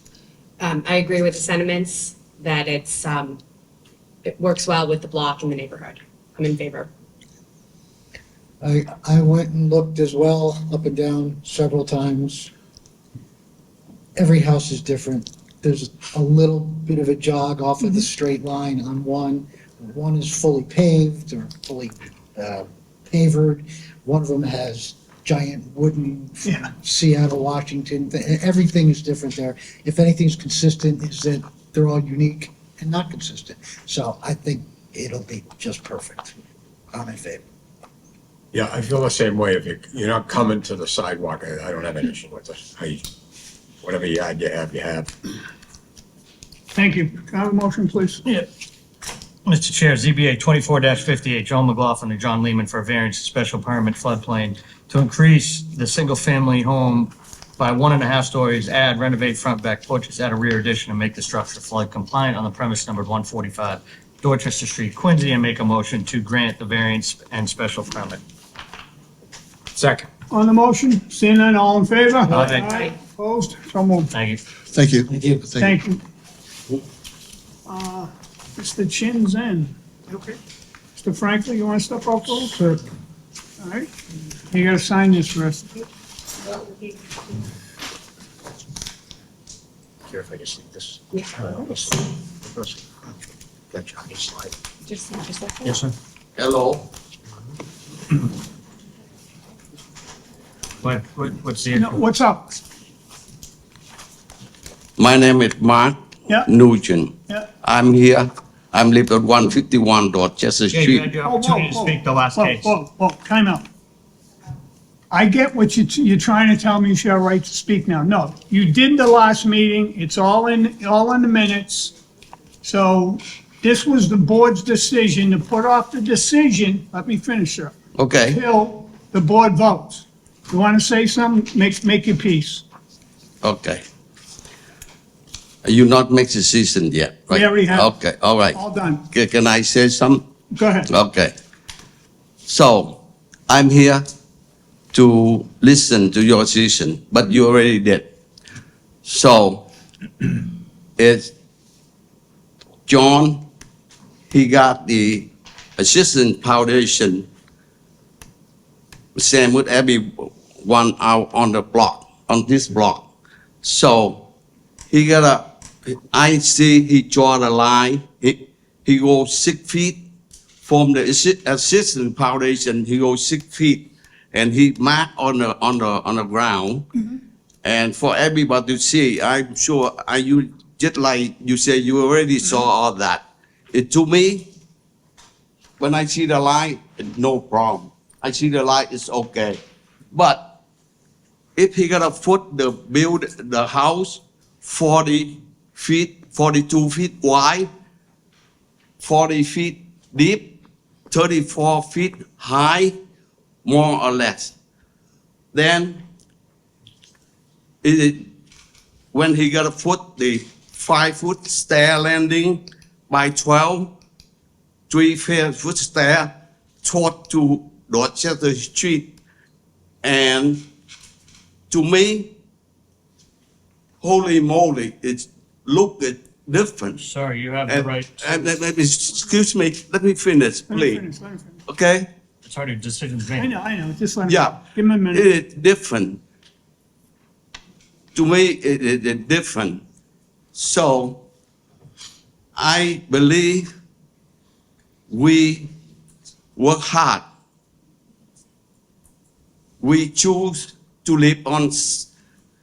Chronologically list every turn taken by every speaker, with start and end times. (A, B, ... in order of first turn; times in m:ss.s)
0:00.6-0:03.4 A
0:04.2-0:06.9 A
0:08.6-0:12.5 B
0:14.2-0:36.4 B
0:36.9-0:37.4 B
0:38.5-0:43.0 C
0:43.8-0:45.1 C
0:46.7-0:48.2 D
0:49.5-1:08.2 E
1:09.8-1:10.1 C
1:10.3-1:14.1 D
1:12.2-1:13.0 A
1:12.3-1:12.7 E
1:14.1-1:14.4 E
1:14.7-1:15.7 F
1:15.6-1:16.0 D
1:17.7-1:19.7 D
1:21.0-1:22.8 D
1:23.6-1:23.9 D
1:24.5-1:25.7 D
1:26.5-1:26.9 A
1:30.1-1:31.0 C
1:31.1-1:32.1 A
1:32.4-1:32.9 C
1:33.7-1:34.5 C
1:34.8-1:35.8 A
1:35.6-1:35.9 E
1:36.4-1:36.9 F
1:40.8-1:42.0 E
1:41.8-1:42.6 D
1:45.0-1:51.1 F
1:50.7-1:52.7 E
1:51.2-1:53.7 D
1:55.1-2:01.9 D
2:02.6-2:07.8 D
2:08.0-2:08.4 F
2:08.3-2:12.6 D
2:13.4-2:13.8 F
2:15.6-2:20.2 F
2:17.3-2:17.8 D
2:18.5-2:19.0 D
2:20.5-2:20.9 D
2:20.9-2:21.4 F
2:22.5-2:24.1 F
2:24.9-2:28.0 F
2:29.0-2:29.7 F
2:31.0-2:31.3 F
2:32.9-2:33.4 F
2:34.3-2:37.3 F
2:39.2-2:43.1 F
2:43.6-2:44.2 F
2:44.9-2:50.0 F
2:50.6-2:56.9 F
2:57.6-3:04.5 F
3:05.8-3:10.5 F
3:11.6-3:17.7 F
3:19.0-3:20.6 F
3:21.1-3:22.9 F
3:23.6-3:24.5 F
3:25.5-3:26.0 F
3:27.8-3:28.3 F
3:29.1-3:33.9 F
3:34.9-3:36.3 F
3:36.8-3:39.1 F
3:40.0-3:40.6 F
3:41.7-3:42.3 F
3:44.0-3:47.0 F
3:47.0-3:48.6 E
3:47.7-3:51.0 F
3:50.7-3:51.6 D
3:51.7-3:52.1 F
3:52.4-3:53.5 E
3:53.4-3:55.2 D
3:54.2-3:56.2 F
3:58.2-3:59.8 F
4:00.5-4:01.2 F
4:02.6-4:03.7 F
4:05.1-4:05.7 F
4:06.6-4:07.2 F
4:09.8-4:12.1 F